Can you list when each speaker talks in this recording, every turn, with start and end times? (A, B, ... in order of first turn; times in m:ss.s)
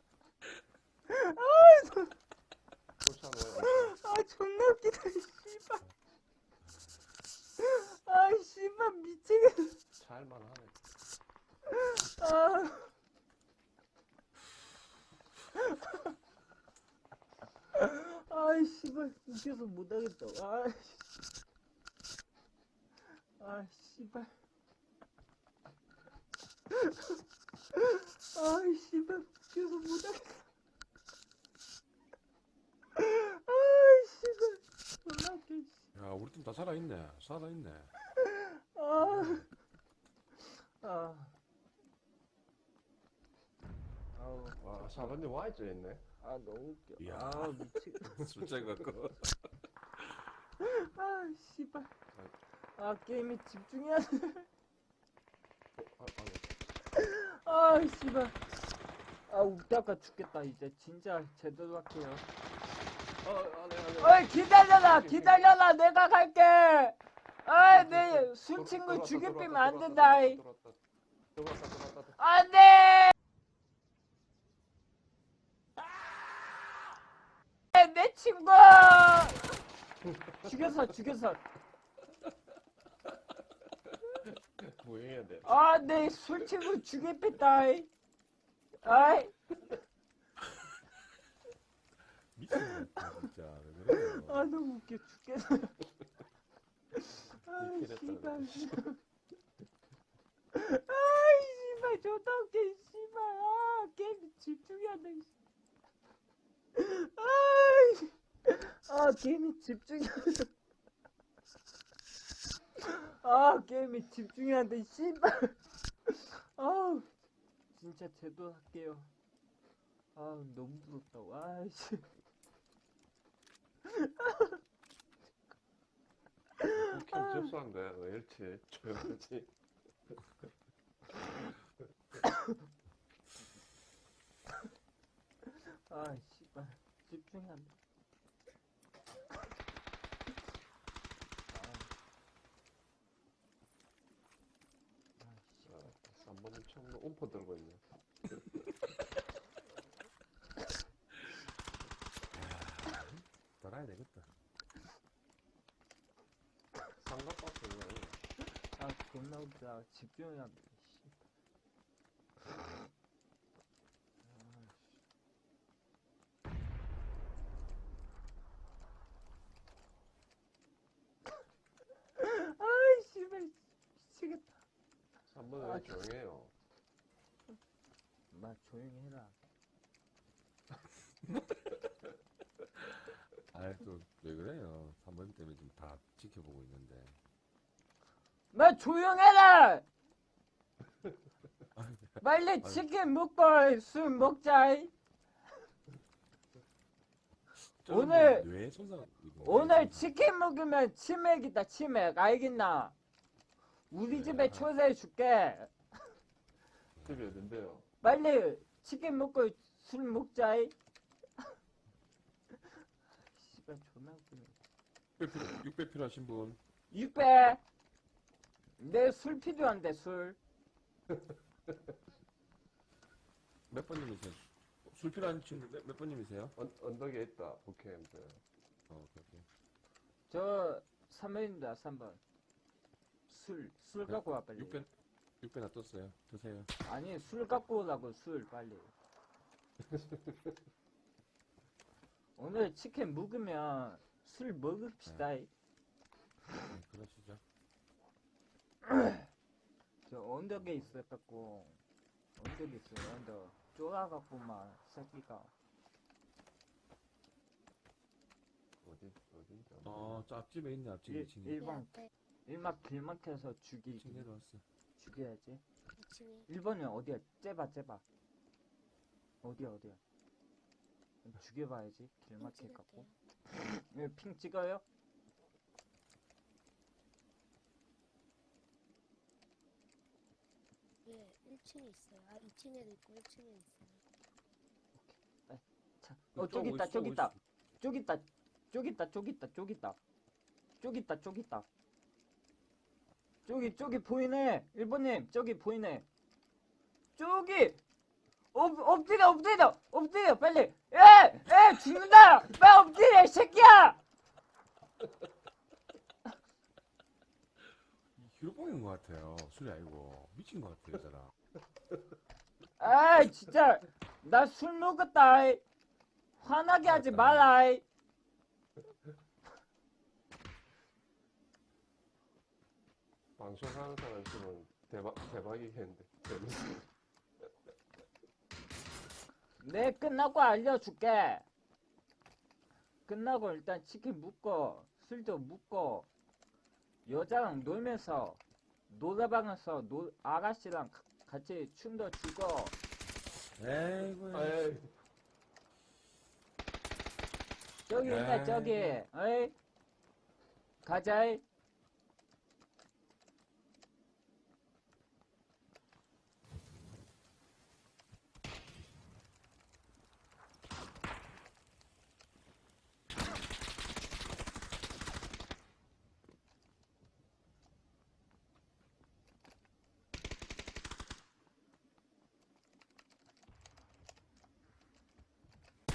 0:01.1-0:02.1 A
0:03.0-0:04.0 B
0:03.6-0:05.9 A
0:06.7-0:07.0 C
0:07.6-0:09.8 A
0:10.0-0:10.8 B
0:11.7-0:12.9 A
0:15.6-0:16.1 A
0:17.7-0:21.1 A
0:23.4-0:24.3 A
0:26.7-0:27.2 A
0:27.8-0:30.5 A
0:33.0-0:35.9 A
0:36.0-0:37.9 C
0:38.1-0:39.5 A
0:39.0-0:39.4 C
0:40.4-0:41.3 A
0:44.2-0:45.2 A
0:44.6-0:46.0 B
0:46.2-0:48.1 A
0:47.0-0:49.4 C
0:50.6-0:51.9 A
0:52.8-0:54.5 A
0:55.8-0:56.5 B
0:57.0-0:58.4 A
0:59.3-1:02.3 A
1:03.2-1:05.5 B
1:04.0-1:10.4 A
1:07.6-1:10.8 B
1:11.4-1:12.2 B
1:12.2-1:13.2 A
1:17.7-1:19.6 A
1:20.0-1:20.6 B
1:20.4-1:21.4 A
1:24.3-1:25.6 B
1:25.4-1:27.9 A
1:28.8-1:29.4 A
1:30.4-1:30.7 C
1:32.3-1:34.5 C
1:32.5-1:33.3 A
1:33.9-1:35.8 A
1:37.0-1:39.0 A
1:37.6-1:38.7 B
1:40.5-1:45.3 A
1:46.8-1:50.5 A
1:52.8-1:57.1 A
1:57.7-1:59.1 A
2:00.2-2:02.1 A
2:03.8-2:04.6 A
2:06.6-2:07.4 A
2:06.8-2:09.5 B
2:12.2-2:12.6 A
2:15.5-2:17.8 A
2:21.5-2:21.9 A
2:25.2-2:25.7 A
2:25.6-2:27.8 B
2:32.3-2:34.3 C
2:37.0-2:38.2 B
2:38.8-2:41.2 A
2:42.5-2:42.9 A
2:44.2-2:45.0 A
2:52.2-2:54.6 A
2:55.3-2:56.5 B
2:55.6-2:56.0 A
2:58.3-2:59.4 A
3:01.3-3:01.8 C
3:03.5-3:07.2 C
3:08.5-3:09.9 A
3:11.8-3:12.9 C
3:12.2-3:14.9 A
3:17.8-3:20.1 C
3:17.9-3:18.5 A
3:19.4-3:23.0 A
3:23.9-3:25.7 A
3:24.1-3:24.7 C
3:27.0-3:27.9 B
3:28.0-3:30.8 A
3:33.3-3:34.6 A
3:35.2-3:36.6 C
3:36.9-3:37.6 A
3:38.8-3:40.4 A
3:41.1-3:41.9 B
3:43.7-3:46.6 C
3:46.6-3:48.4 B
3:48.9-3:49.5 C
3:50.3-3:52.2 A
3:53.3-3:54.8 A
3:54.1-3:54.9 C
3:55.4-3:56.7 C
3:56.8-3:58.9 A
3:59.9-4:00.6 B
4:02.4-4:05.5 A
4:06.7-4:07.4 C
4:08.8-4:09.3 A
4:10.1-4:11.8 A
4:12.4-4:15.5 A
4:18.8-4:20.2 B
4:19.8-4:21.7 C
4:21.1-4:24.3 A
4:21.6-4:22.1 D
4:24.0-4:24.6 C
4:25.0-4:25.6 A
4:26.0-4:26.5 D
4:26.5-4:28.0 A
4:29.4-4:30.0 A
4:31.2-4:34.8 A
4:32.4-4:33.2 D
4:41.1-4:44.0 D
4:45.0-4:50.0 A
4:46.4-4:47.4 C
4:50.8-4:51.7 A
4:53.5-4:56.1 A
4:57.2-4:57.8 A
4:58.5-5:04.0 A
5:08.2-5:11.3 C
5:12.8-5:15.6 A
5:16.4-5:17.8 A
5:16.8-5:17.5 C
5:23.4-5:26.9 B
5:29.6-5:31.5 A
5:33.1-5:36.1 A
5:37.1-5:42.8 A
5:43.4-5:44.7 C
5:44.3-5:44.9 B
5:47.9-5:49.6 A
5:48.0-5:49.0 C
5:50.8-5:51.4 A